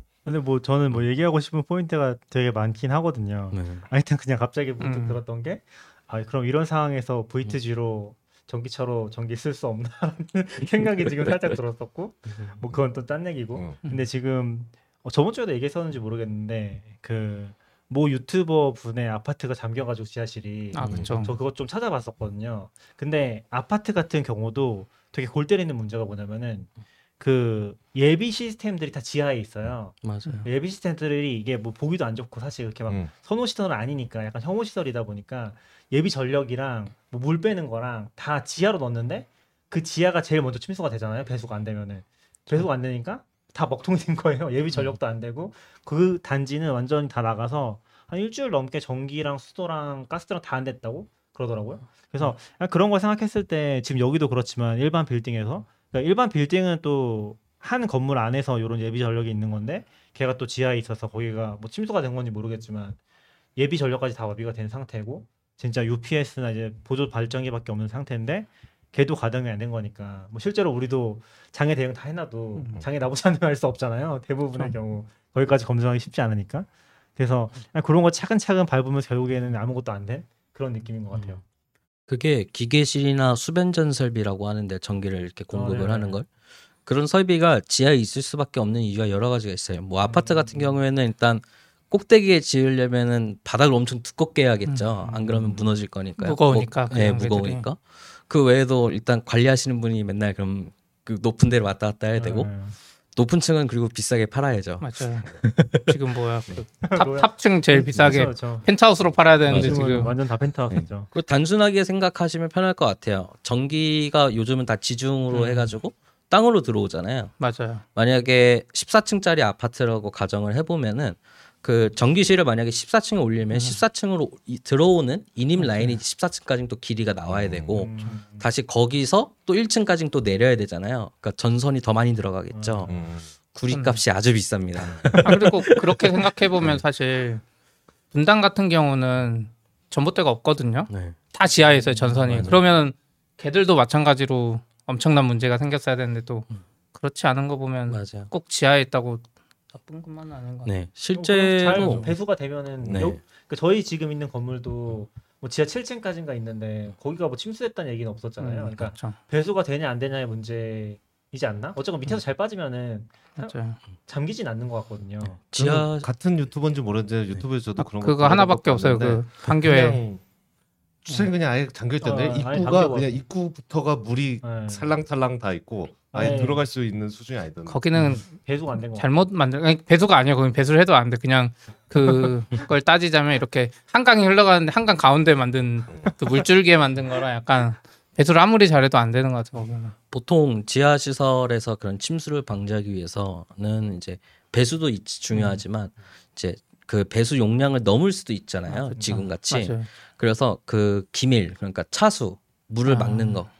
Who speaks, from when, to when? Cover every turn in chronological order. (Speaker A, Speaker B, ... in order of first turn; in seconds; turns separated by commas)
Speaker A: 0.2-63.0, Speaker B: 3.5-3.8, Speaker C: 4.8-5.2, Speaker C: 20.7-21.4, Speaker D: 20.8-21.1, Speaker B: 30.0-30.5, Speaker A: 63.5-81.4, Speaker B: 82.1-86.3, Speaker A: 85.5-86.2, Speaker B: 86.8-102.6, Speaker A: 90.0-90.8, Speaker A: 95.0-95.7, Speaker C: 96.2-97.6, Speaker A: 102.2-102.8, Speaker B: 103.1-105.9, Speaker C: 104.8-110.1, Speaker A: 106.8-108.7, Speaker A: 109.5-111.1, Speaker B: 109.5-109.8, Speaker D: 109.5-110.0, Speaker B: 111.1-117.3, Speaker C: 115.3-115.7, Speaker C: 117.4-117.8, Speaker B: 117.9-133.0, Speaker C: 123.5-123.8, Speaker D: 127.2-127.8, Speaker A: 127.7-128.4, Speaker A: 132.5-133.0, Speaker D: 132.9-133.3, Speaker B: 133.5-136.2, Speaker C: 133.7-134.0, Speaker D: 134.8-135.4, Speaker C: 135.2-137.4, Speaker C: 138.1-150.7, Speaker B: 140.9-141.2, Speaker A: 141.8-142.4, Speaker B: 142.3-142.6, Speaker B: 147.9-148.3, Speaker B: 150.6-152.1, Speaker A: 151.1-165.4, Speaker C: 151.6-152.1, Speaker D: 152.8-153.2, Speaker B: 152.9-153.2, Speaker B: 158.4-158.7, Speaker C: 158.4-159.2, Speaker C: 163.4-163.8, Speaker B: 165.4-166.1, Speaker D: 165.6-170.2, Speaker C: 167.8-170.0, Speaker D: 171.0-177.8, Speaker A: 172.0-173.1, Speaker A: 174.4-174.9, Speaker A: 176.1-176.6, Speaker C: 177.7-189.9, Speaker A: 177.9-179.1, Speaker B: 190.1-203.5, Speaker C: 198.7-199.9, Speaker A: 199.0-199.2, Speaker C: 202.8-203.4